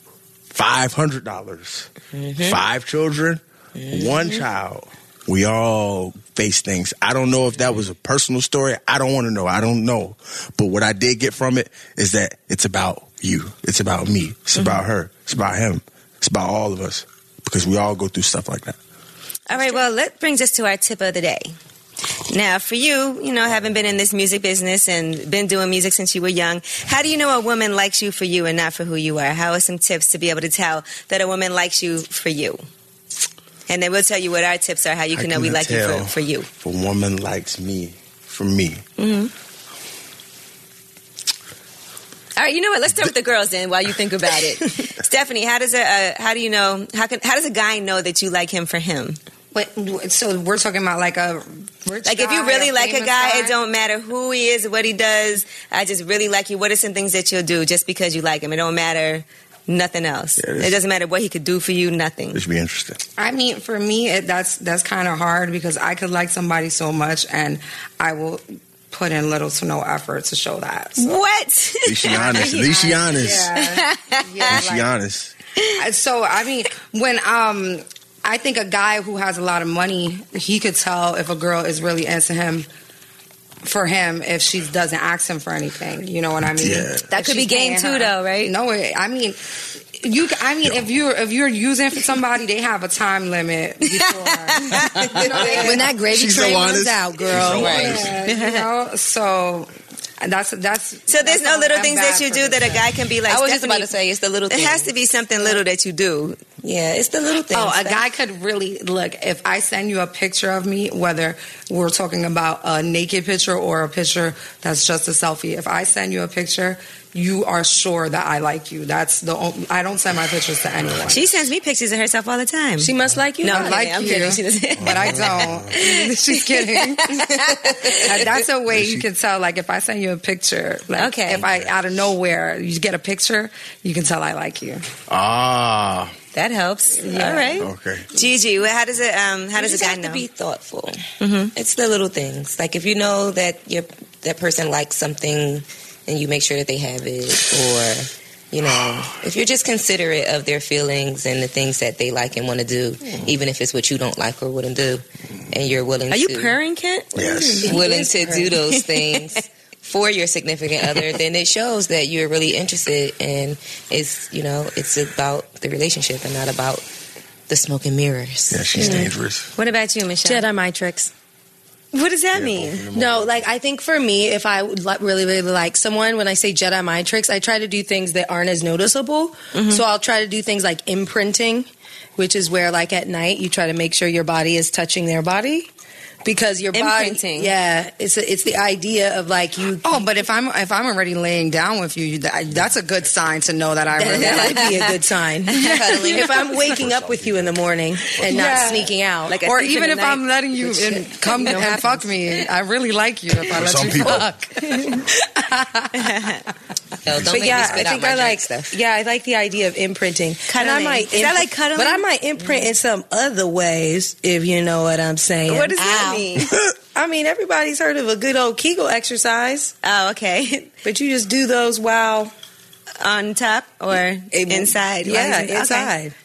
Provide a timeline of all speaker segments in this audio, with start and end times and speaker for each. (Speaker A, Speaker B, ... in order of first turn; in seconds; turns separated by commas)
Speaker A: 0.5-1.9, Speaker B: 2.1-2.6, Speaker A: 2.4-18.8, Speaker B: 3.8-4.4, Speaker C: 14.5-14.8, Speaker C: 19.5-21.5, Speaker C: 22.3-32.6, Speaker C: 33.7-36.5, Speaker A: 35.1-38.8, Speaker C: 39.0-39.3, Speaker C: 42.4-49.2, Speaker D: 49.5-53.5, Speaker C: 52.0-62.4, Speaker A: 60.4-60.7, Speaker A: 62.3-63.0, Speaker D: 63.2-71.1, Speaker C: 71.0-74.7, Speaker A: 71.8-73.5, Speaker D: 72.2-74.9, Speaker A: 74.5-75.3, Speaker D: 75.8-82.7, Speaker D: 83.6-89.4, Speaker A: 86.6-87.0, Speaker C: 87.1-88.5, Speaker D: 90.0-95.8, Speaker C: 93.8-95.8, Speaker B: 95.2-95.5, Speaker E: 95.2-98.1, Speaker A: 96.1-98.1, Speaker B: 97.5-98.0, Speaker D: 97.7-102.8, Speaker C: 98.2-98.6, Speaker C: 101.1-103.9, Speaker B: 103.3-104.9, Speaker C: 104.5-106.4, Speaker B: 106.6-108.0, Speaker D: 107.5-121.3, Speaker C: 121.1-128.3, Speaker E: 122.8-124.1, Speaker D: 123.4-134.8, Speaker A: 124.8-125.8, Speaker A: 128.7-129.0, Speaker C: 130.9-131.5, Speaker A: 135.1-136.1, Speaker C: 136.3-140.2, Speaker D: 137.0-137.6, Speaker A: 137.6-138.1, Speaker B: 139.5-141.0, Speaker C: 141.2-141.5, Speaker B: 141.5-156.6, Speaker A: 148.6-149.1, Speaker C: 156.1-159.2, Speaker A: 157.1-157.7, Speaker E: 157.6-158.5, Speaker B: 157.7-166.8, Speaker B: 167.5-169.0, Speaker A: 168.5-169.5, Speaker C: 168.7-170.4, Speaker E: 168.8-169.0, Speaker E: 170.2-171.1, Speaker C: 171.9-172.8, Speaker A: 172.3-173.5, Speaker E: 172.9-185.7, Speaker C: 179.5-179.8, Speaker E: 186.2-190.0, Speaker C: 186.7-187.5, Speaker D: 189.8-194.8, Speaker E: 193.9-199.6, Speaker C: 194.2-195.0, Speaker C: 195.5-196.5, Speaker B: 195.6-196.5, Speaker D: 195.6-196.1, Speaker A: 196.7-198.8, Speaker D: 198.3-198.9, Speaker C: 199.3-201.7, Speaker D: 199.4-206.3, Speaker E: 201.0-202.1, Speaker A: 203.5-204.3, Speaker E: 204.0-204.6, Speaker C: 205.9-206.4, Speaker B: 207.1-208.8, Speaker A: 207.1-208.0, Speaker E: 207.2-219.7, Speaker C: 210.5-212.7, Speaker C: 215.5-216.5, Speaker C: 219.8-220.7, Speaker E: 220.8-222.3, Speaker C: 223.0-225.9, Speaker E: 224.3-226.1